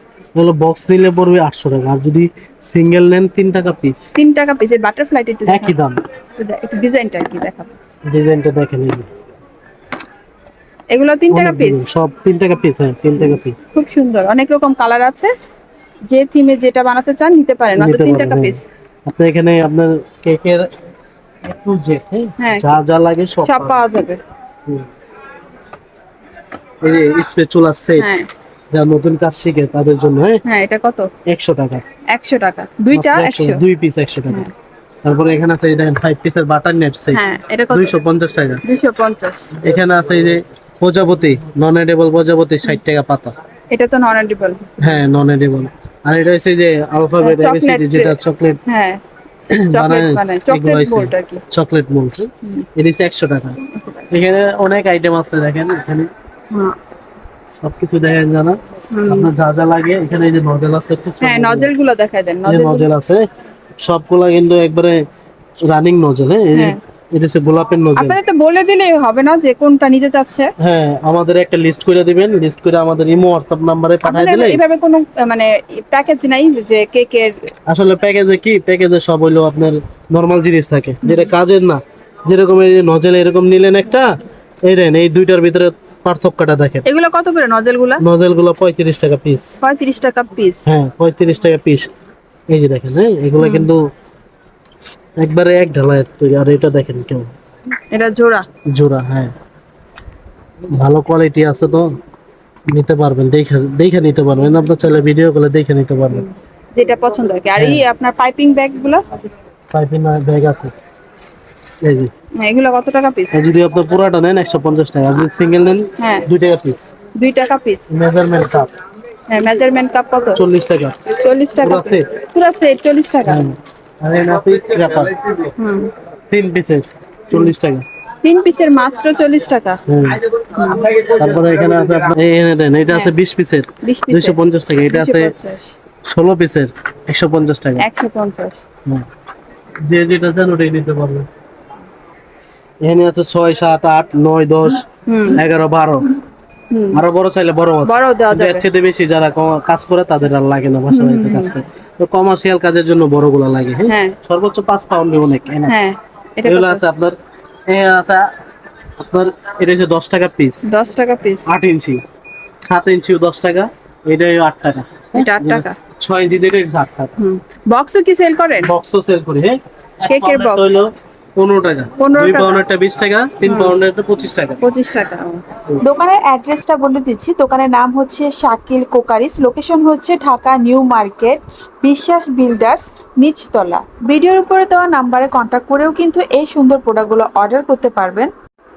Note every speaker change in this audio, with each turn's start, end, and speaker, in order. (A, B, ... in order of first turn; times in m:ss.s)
0:00.4-0:04.1 A
0:04.1-0:05.8 B
0:05.4-0:06.0 A
0:06.4-0:07.7 B
0:08.1-0:09.1 A
0:10.9-0:11.9 B
0:11.3-0:13.6 A
0:13.2-0:15.3 B
0:16.1-0:18.6 B
0:17.8-0:20.7 A
0:21.4-0:23.8 A
0:22.4-0:22.8 B
0:23.4-0:24.2 B
0:26.8-0:28.1 A
0:28.0-0:28.3 B
0:28.7-0:30.4 A
0:30.4-0:31.1 B
0:31.3-0:31.8 A
0:32.1-0:33.6 B
0:32.9-0:34.4 A
0:35.0-0:38.6 A
0:37.1-0:38.0 B
0:38.6-0:39.5 B
0:39.5-0:43.3 A
0:43.7-0:44.7 B
0:44.8-0:48.6 A
0:47.2-0:49.0 B
0:49.5-0:53.6 A
0:49.7-0:51.4 B
0:53.7-0:54.1 B
0:54.1-0:56.1 A
0:56.5-0:56.8 B
0:57.6-1:01.7 A
0:58.9-0:59.3 B
1:01.2-1:02.9 B
1:02.4-1:03.2 A
1:03.8-1:05.0 A
1:05.6-1:08.2 A
1:08.0-1:10.5 B
1:10.6-1:14.6 A
1:14.0-1:17.5 B
1:17.7-1:26.8 A
1:21.0-1:21.3 B
1:26.8-1:28.0 B
1:28.0-1:29.6 A
1:29.6-1:30.7 B
1:30.6-1:31.9 A
1:32.5-1:33.8 A
1:33.4-1:33.7 B
1:35.2-1:37.3 A
1:37.9-1:38.5 B
1:38.7-1:39.3 A
1:40.7-1:41.9 A
1:42.7-1:46.2 A
1:46.1-1:49.0 B
1:47.6-1:47.8 A
1:49.7-1:50.7 A
1:51.8-1:52.1 A
1:52.4-1:53.4 B
1:53.3-1:56.8 A
1:56.0-1:56.2 B
1:57.2-1:57.9 B
1:57.9-1:58.7 A
1:59.3-2:00.4 B
2:00.3-2:02.1 A
2:01.1-2:03.5 B
2:03.2-2:05.5 A
2:05.6-2:05.9 B
2:06.3-2:07.8 A
2:08.2-2:09.8 B
2:09.9-2:10.2 A
2:10.5-2:10.9 B
2:10.8-2:15.3 A
2:12.9-2:13.1 B
2:13.8-2:15.7 B
2:16.1-2:17.8 A
2:17.8-2:18.6 B
2:19.9-2:21.2 A
2:22.8-2:26.1 A
2:25.0-2:25.4 B
2:26.7-2:27.0 B
2:26.9-2:35.7 A
2:27.8-2:28.6 B
2:30.9-2:31.5 B
2:33.9-2:34.2 B
2:35.7-2:36.8 B
2:36.4-2:37.2 A
2:37.7-2:38.3 A
2:39.0-2:40.7 A
2:40.6-2:41.5 B
2:41.4-2:42.0 A
2:42.6-2:47.1 A
2:45.1-2:45.8 B
2:47.2-2:48.7 B
2:48.6-2:54.6 A
2:50.1-2:50.8 B
2:52.0-2:52.6 B
2:53.4-2:53.7 B
2:54.6-2:55.4 B
2:55.8-3:08.3 C